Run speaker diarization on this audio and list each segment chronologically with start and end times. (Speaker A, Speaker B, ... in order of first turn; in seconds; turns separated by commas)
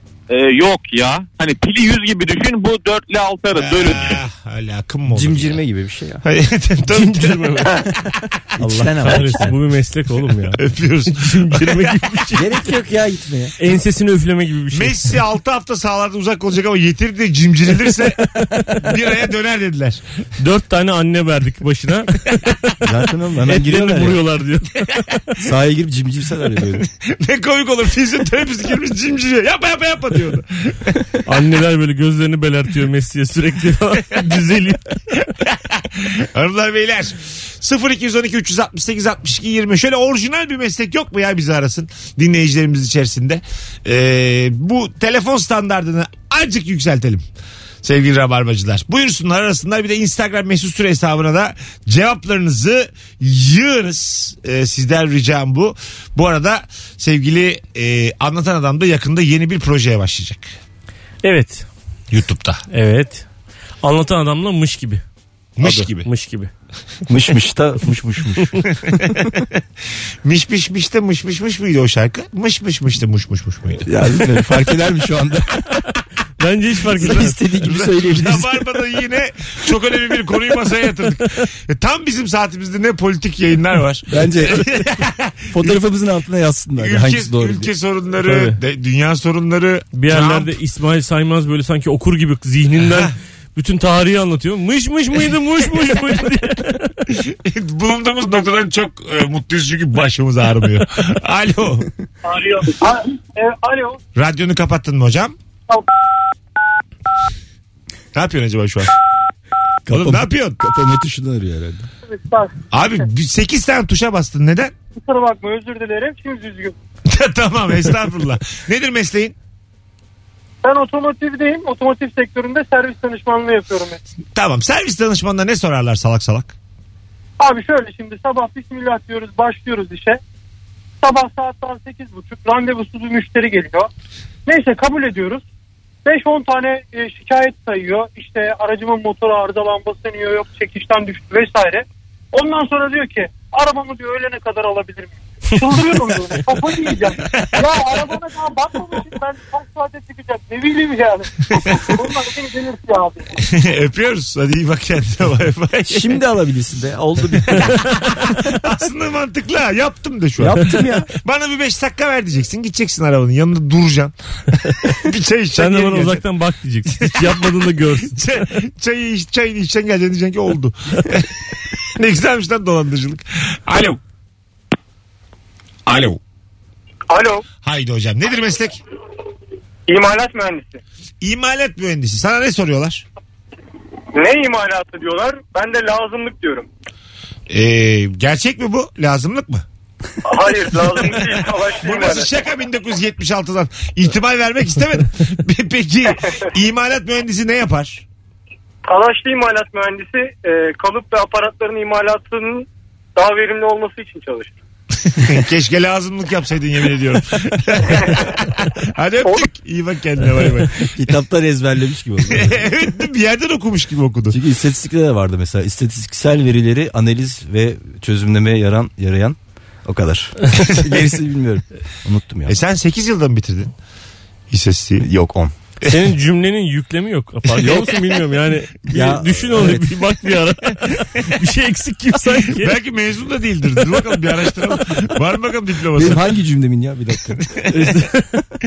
Speaker A: 0.3-4.2, Speaker B: 3.5-5.6, Speaker C: 5.1-6.2, Speaker B: 6.2-7.9, Speaker D: 6.9-7.9, Speaker C: 8.6-9.6, Speaker B: 8.8-9.2, Speaker D: 9.1-10.6, Speaker B: 10.5-12.0, Speaker D: 11.1-12.5, Speaker C: 12.3-13.6, Speaker D: 13.6-15.1, Speaker B: 14.7-20.0, Speaker D: 18.3-18.6, Speaker D: 20.4-22.4, Speaker C: 22.8-24.2, Speaker D: 23.4-25.4, Speaker C: 25.4-26.9, Speaker B: 26.7-31.1, Speaker D: 31.2-34.8, Speaker B: 35.1-47.2, Speaker B: 47.8-60.5, Speaker D: 61.2-61.7, Speaker B: 62.1-62.6, Speaker D: 62.7-63.3, Speaker D: 63.8-65.0, Speaker B: 65.6-66.1, Speaker D: 65.6-66.5, Speaker C: 67.1-69.2, Speaker B: 68.9-69.2, Speaker B: 70.2-73.9, Speaker C: 73.8-75.7, Speaker D: 76.4-77.5, Speaker C: 77.0-78.7, Speaker B: 77.6-85.8, Speaker C: 84.1-84.7, Speaker C: 85.5-87.7, Speaker B: 86.8-90.5, Speaker D: 88.2-88.6, Speaker D: 90.0-96.9, Speaker B: 97.1-101.9, Speaker E: 102.2-104.0, Speaker B: 104.2-105.3, Speaker B: 108.1-108.9, Speaker C: 109.9-111.9, Speaker B: 109.9-110.6, Speaker E: 112.1-113.1, Speaker B: 112.7-114.7, Speaker E: 115.0-116.8, Speaker B: 117.1-119.3, Speaker E: 120.6-124.0, Speaker B: 124.3-126.5, Speaker E: 127.4-130.2, Speaker E: 131.0-133.9, Speaker E: 134.5-135.4, Speaker E: 136.1-153.4, Speaker B: 151.6-151.9, Speaker B: 153.4-156.2, Speaker C: 155.9-157.9, Speaker B: 157.5-164.1, Speaker C: 160.4-161.1, Speaker B: 164.8-166.2, Speaker D: 165.6-168.5, Speaker B: 167.0-167.5, Speaker B: 168.1-171.3, Speaker B: 172.0-174.0, Speaker B: 175.9-176.2, Speaker E: 177.1-177.4, Speaker B: 177.6-178.8, Speaker E: 179.9-180.8, Speaker B: 181.2-183.1, Speaker E: 184.2-186.7, Speaker B: 187.5-189.7, Speaker E: 190.2-192.3, Speaker B: 191.0-198.0, Speaker E: 198.9-204.5, Speaker B: 205.1-210.9, Speaker C: 210.9-212.7, Speaker B: 212.3-214.4, Speaker C: 214.3-222.6, Speaker B: 222.5-223.7, Speaker B: 224.5-225.1, Speaker C: 225.0-225.5, Speaker D: 225.9-232.8, Speaker B: 227.6-227.9, Speaker C: 227.6-227.9, Speaker C: 228.9-230.0, Speaker B: 232.5-236.2, Speaker C: 235.9-237.4, Speaker B: 237.4-237.9, Speaker D: 237.7-238.4